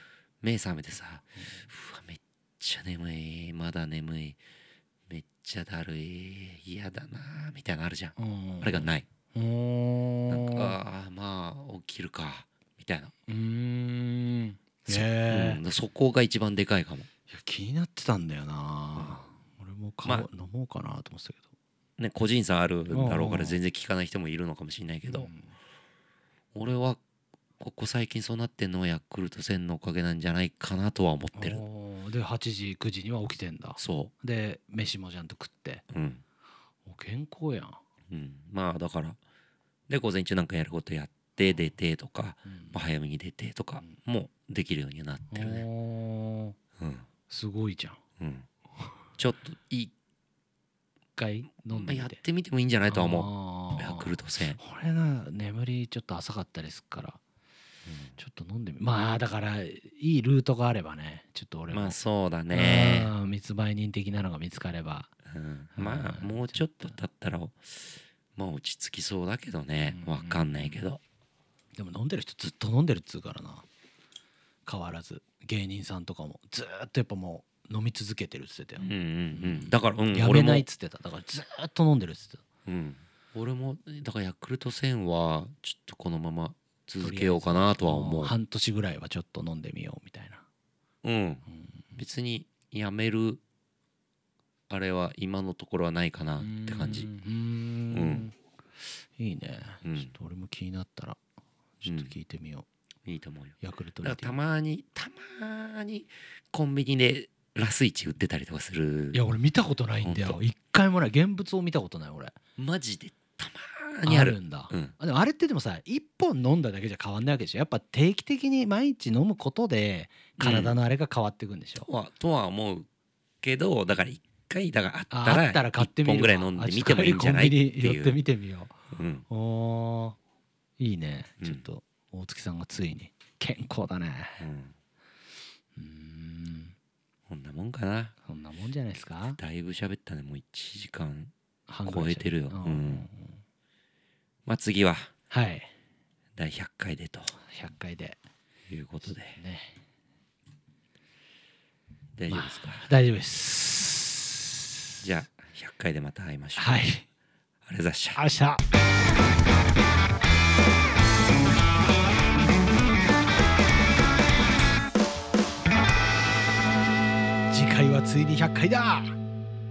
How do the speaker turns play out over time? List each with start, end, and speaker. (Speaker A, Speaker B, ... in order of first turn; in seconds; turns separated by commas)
Speaker A: 0.4-4.4, Speaker A: 5.1-9.1, Speaker B: 8.2-10.8, Speaker A: 10.3-13.1, Speaker B: 13.3-15.6, Speaker A: 14.9-17.1, Speaker B: 17.3-21.5, Speaker A: 18.9-19.2, Speaker A: 22.0-25.3, Speaker B: 22.9-23.6, Speaker B: 25.1-25.5, Speaker A: 26.5-27.0, Speaker A: 27.6-31.6, Speaker B: 31.4-35.8, Speaker A: 33.8-34.1, Speaker A: 35.9-36.2, Speaker B: 36.9-37.8, Speaker A: 38.1-39.2, Speaker A: 39.9-45.6, Speaker B: 42.5-42.8, Speaker B: 45.3-46.5, Speaker A: 46.8-47.0, Speaker B: 47.3-48.0, Speaker A: 48.2-48.5, Speaker A: 49.2-49.9, Speaker B: 51.2-52.2, Speaker A: 51.7-54.6, Speaker B: 52.9-57.2, Speaker A: 57.9-58.1, Speaker B: 58.2-62.0, Speaker A: 61.7-63.1, Speaker B: 62.5-65.1, Speaker A: 65.2-71.0, Speaker B: 65.8-67.0, Speaker B: 69.8-70.8, Speaker B: 71.8-73.7, Speaker B: 74.7-82.4, Speaker A: 78.8-80.7, Speaker A: 82.7-88.3, Speaker B: 87.0-90.4, Speaker A: 91.0-91.4, Speaker B: 91.5-92.0, Speaker A: 92.0-93.4, Speaker A: 94.7-97.1, Speaker B: 96.4-98.3, Speaker A: 97.9-98.3, Speaker B: 99.2-101.2, Speaker A: 99.8-100.1, Speaker B: 101.8-102.7, Speaker A: 101.8-102.1, Speaker A: 103.0-109.2, Speaker B: 103.6-104.3, Speaker B: 109.1-112.3, Speaker A: 110.0-110.4, Speaker A: 112.6-114.9, Speaker B: 114.0-121.9, Speaker A: 120.4-120.8, Speaker A: 121.8-122.9, Speaker A: 123.4-128.2, Speaker B: 125.1-128.7, Speaker A: 128.9-129.2, Speaker B: 129.3-130.2, Speaker B: 130.8-134.4, Speaker A: 134.4-134.7, Speaker B: 135.8-136.7, Speaker A: 137.3-138.1, Speaker B: 138.2-139.4, Speaker A: 139.3-141.3, Speaker B: 141.7-143.4, Speaker A: 141.8-143.1, Speaker A: 144.4-145.1, Speaker B: 145.3-145.7, Speaker A: 146.3-147.3, Speaker B: 147.4-148.2, Speaker A: 148.7-149.4, Speaker B: 149.3-149.8, Speaker A: 152.2-152.9, Speaker B: 152.3-154.8, Speaker A: 155.0-156.8, Speaker B: 156.6-157.1, Speaker A: 157.6-158.2, Speaker B: 158.1-158.6, Speaker B: 167.5-169.2